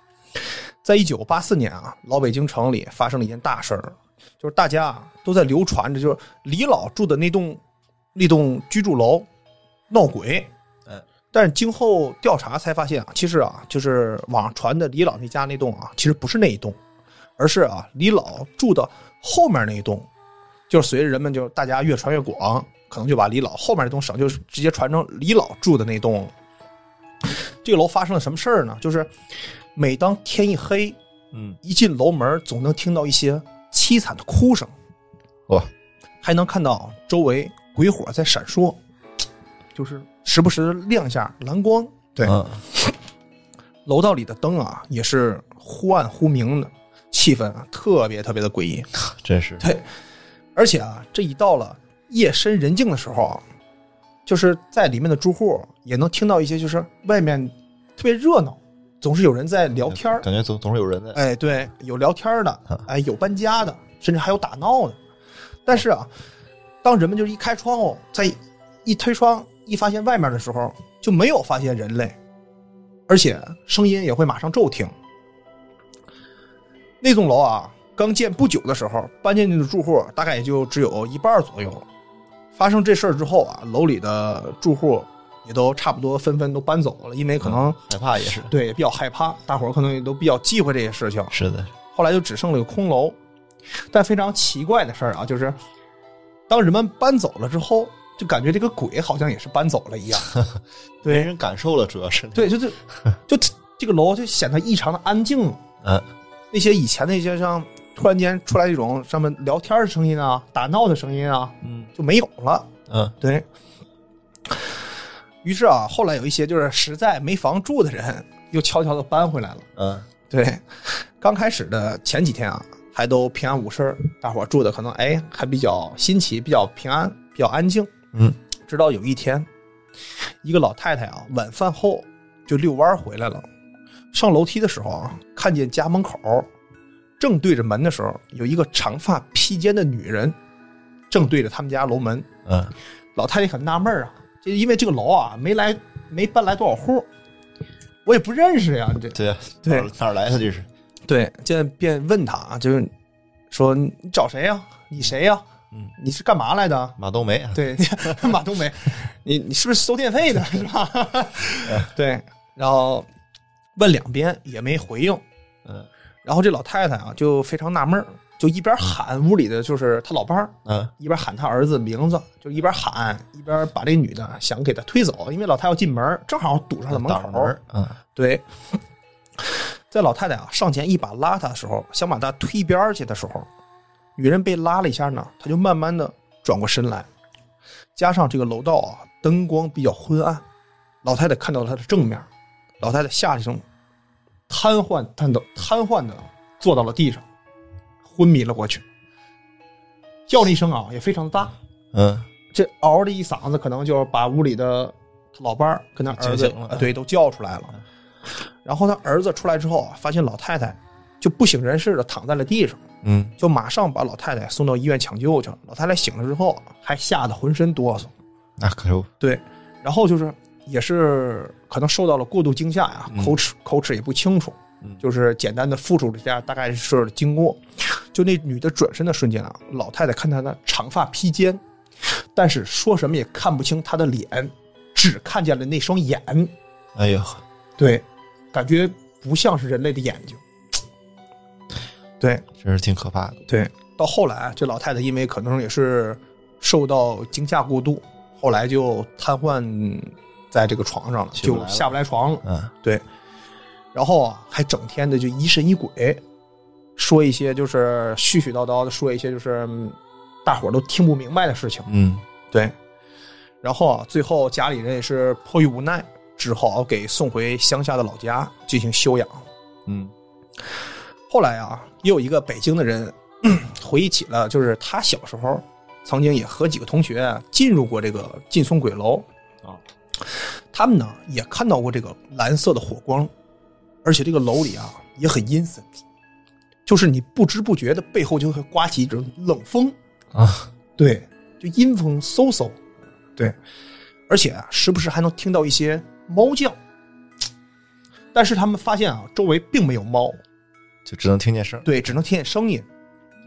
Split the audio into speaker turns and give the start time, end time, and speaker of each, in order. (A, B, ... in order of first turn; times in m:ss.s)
0:00.8-0:07.6 A
0:08.2-0:09.3 A
0:09.9-0:10.5 A
0:11.3-0:16.8 A
0:17.4-0:20.1 A
0:20.7-0:26.3 A
0:27.6-0:29.1 A
0:29.8-0:31.0 A
0:31.6-0:34.7 A
0:36.2-0:38.8 A
0:39.8-0:42.4 A
0:42.2-0:42.6 B
0:43.9-0:48.9 A
0:49.0-0:49.6 B
0:50.6-0:53.4 A
0:54.3-1:00.3 A
1:00.1-1:01.2 B
1:01.1-1:05.0 A
1:05.6-1:06.1 A
1:06.8-1:12.2 A
1:13.1-1:14.9 A
1:17.0-1:21.8 A
1:22.5-1:27.8 A
1:27.4-1:28.5 B
1:28.5-1:31.3 A
1:31.3-1:31.7 B
1:31.9-1:33.2 A
1:33.9-1:35.6 A
1:36.5-1:40.3 A
1:40.4-1:42.6 B
1:41.0-1:41.3 A
1:42.4-1:42.8 A
1:43.3-1:45.6 A
1:45.8-1:46.1 B
1:46.5-1:52.7 A
1:51.6-1:51.9 B
1:52.9-1:53.2 B
1:53.2-1:53.5 A
1:54.5-1:54.7 A
1:55.4-1:59.6 A
1:59.8-2:00.1 B
2:00.3-2:07.9 A
2:08.7-2:09.5 A
2:10.4-2:13.5 A
2:14.1-2:16.5 A
2:17.2-2:20.4 A
2:21.1-2:22.3 A
2:22.5-2:22.7 B
2:23.2-2:27.1 A
2:28.0-2:29.9 A
2:29.1-2:30.7 B
2:31.1-2:32.9 A
2:33.5-2:35.4 A
2:36.0-2:37.0 A
2:37.0-2:38.3 B
2:37.5-2:43.1 A
2:43.8-2:45.2 A
2:46.2-2:57.6 A
2:50.7-2:50.9 B
2:56.9-2:58.0 B
2:58.2-2:58.5 A
2:59.4-3:03.5 A
3:04.2-3:07.1 A
3:08.0-3:10.4 A
3:11.0-3:12.3 A
3:12.8-3:13.6 A
3:14.5-3:17.2 A
3:18.0-3:18.8 A
3:20.3-3:21.6 A
3:21.9-3:22.3 B
3:22.5-3:27.7 A
3:26.1-3:26.9 B
3:28.6-3:32.8 A
3:33.0-3:33.4 B
3:33.4-3:38.1 A
3:38.6-3:39.1 B
3:39.2-3:51.6 A
3:43.1-3:43.4 B
3:52.3-3:56.5 A
3:57.0-3:57.4 B
3:57.8-4:00.4 A
4:02.2-4:02.4 A
4:02.6-4:03.4 B
4:03.5-4:13.0 A
4:11.4-4:11.9 B
4:12.4-4:12.7 B
4:13.9-4:16.2 A
4:17.0-4:21.9 A
4:21.9-4:22.2 B
4:23.6-4:29.4 A
4:29.9-4:30.1 B
4:31.3-4:39.3 A
4:40.7-4:43.3 A
4:44.0-4:45.9 A
4:46.9-4:50.0 A
4:50.3-4:50.7 B
4:51.0-4:52.8 A
4:54.3-4:56.8 A
4:58.3-5:00.4 A
5:01.1-5:01.9 B
5:01.8-5:02.9 A